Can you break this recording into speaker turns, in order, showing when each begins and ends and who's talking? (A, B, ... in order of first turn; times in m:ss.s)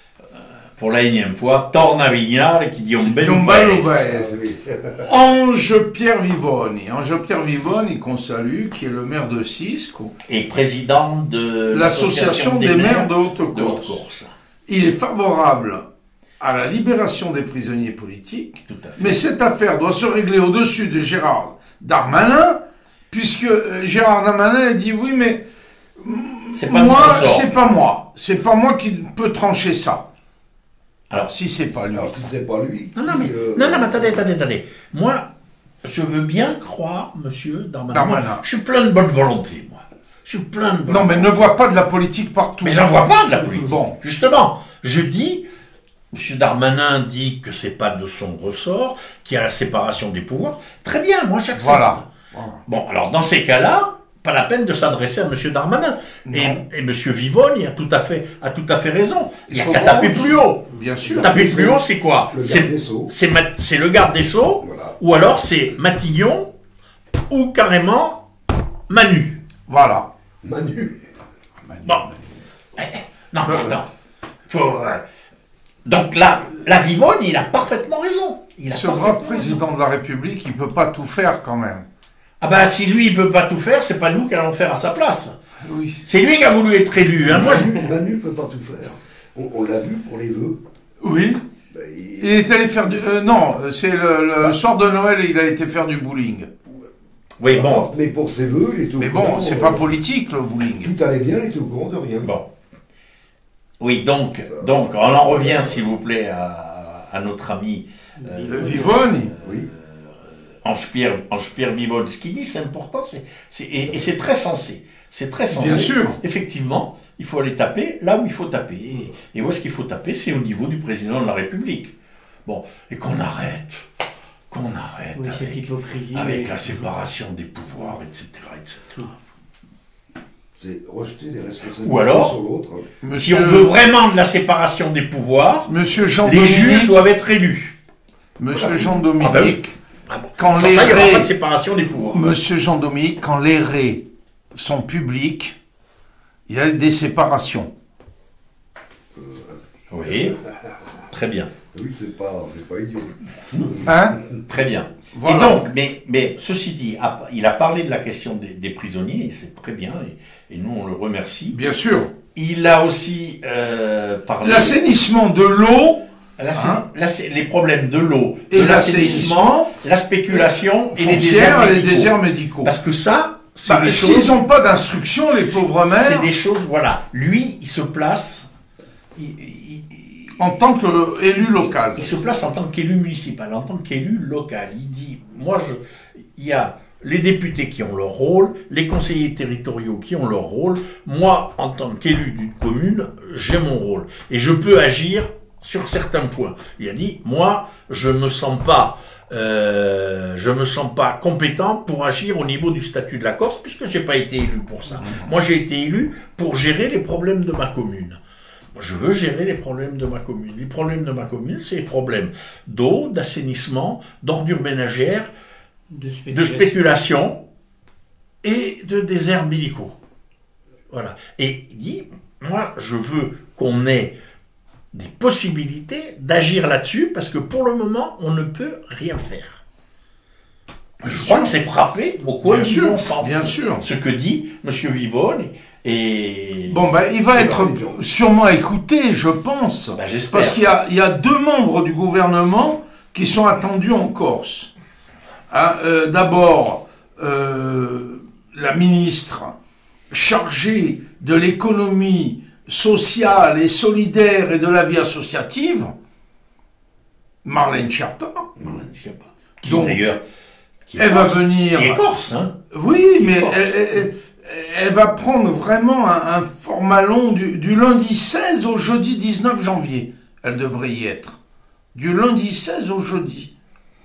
0:00.3-0:04.1 A
0:03.0-0:04.4 B
0:04.0-0:05.1 C
0:05.0-0:10.1 B
0:10.3-0:14.3 A
0:11.7-0:14.0 B
0:14.7-0:15.9 B
0:16.4-0:25.4 B
0:18.7-0:19.2 A
0:26.0-0:30.0 B
0:26.5-0:27.5 A
0:31.3-0:32.2 B
0:31.9-0:34.2 C
0:33.0-0:35.3 A
0:35.8-0:41.5 A
0:37.9-0:38.4 B
0:40.9-0:44.0 B
0:42.6-0:45.4 A
0:46.1-0:52.0 A
0:51.6-0:52.6 B
0:52.7-1:00.6 A
0:56.3-0:56.6 B
0:59.5-1:01.4 B
1:01.0-1:03.1 C
1:01.2-1:06.5 A
1:04.6-1:05.0 C
1:07.3-1:08.3 A
1:08.9-1:09.4 A
1:09.7-1:10.1 B
1:10.4-1:11.1 C
1:12.8-1:13.9 A
1:13.5-1:13.8 B
1:14.5-1:15.0 A
1:15.8-1:19.6 A
1:18.7-1:21.8 B
1:22.4-1:25.4 A
1:25.6-1:26.0 B
1:26.0-1:27.8 A
1:27.2-1:30.6 C
1:31.0-1:31.4 B
1:31.7-1:33.0 C
1:32.2-1:36.5 B
1:37.4-1:37.9 A
1:37.5-1:39.9 C
1:39.0-1:41.0 B
1:40.8-1:42.3 C
1:42.2-1:42.5 A
1:43.8-2:02.0 A
1:44.5-1:45.8 C
1:48.2-1:49.0 D
1:48.5-1:49.3 B
1:49.4-1:49.7 C
1:55.5-1:56.2 B
2:02.5-2:03.9 A
2:04.5-2:09.1 A
2:05.2-2:06.9 D
2:10.6-2:12.9 C
2:11.8-2:12.4 A
2:13.0-2:13.7 B
2:13.1-2:15.7 A
2:15.7-2:17.0 B
2:16.2-2:17.8 A
2:18.4-2:19.8 B
2:18.6-2:22.2 A
2:20.4-2:21.3 B
2:22.1-2:25.6 B
2:26.5-2:27.7 B
2:29.1-2:30.7 C
2:29.9-2:30.4 A
2:31.1-2:31.5 A
2:31.7-2:34.0 C
2:33.8-2:34.2 B
2:34.5-2:41.6 A
2:35.1-2:35.6 B
2:41.5-2:42.1 B
2:42.3-2:44.8 A
2:44.4-2:46.0 B
2:46.4-2:54.4 A
2:46.6-2:46.8 B
2:48.5-2:49.7 B
2:50.3-2:52.7 B
2:53.7-2:56.3 B
2:55.3-2:58.5 A
2:59.2-3:00.4 A
3:00.4-3:02.1 B
3:01.9-3:05.8 A
3:06.4-3:28.2 A
3:25.0-3:25.3 B
3:28.8-3:35.3 A
3:35.9-3:36.8 D
3:36.3-3:37.4 A
3:38.4-3:40.0 A
3:40.9-3:44.2 A
3:44.9-3:49.6 A
3:51.0-3:51.5 B
3:51.0-3:56.8 A
3:52.4-3:53.8 B
3:56.7-4:04.7 B
3:57.4-3:58.0 C
4:00.0-4:00.6 A
4:05.5-4:09.5 B
4:10.1-4:15.9 B
4:17.4-4:18.5 B
4:18.6-4:20.2 A
4:19.6-4:20.1 B
4:20.9-4:22.6 A
4:21.0-4:22.1 B
4:22.7-4:31.4 B
4:23.2-4:23.7 A
4:31.9-4:33.5 B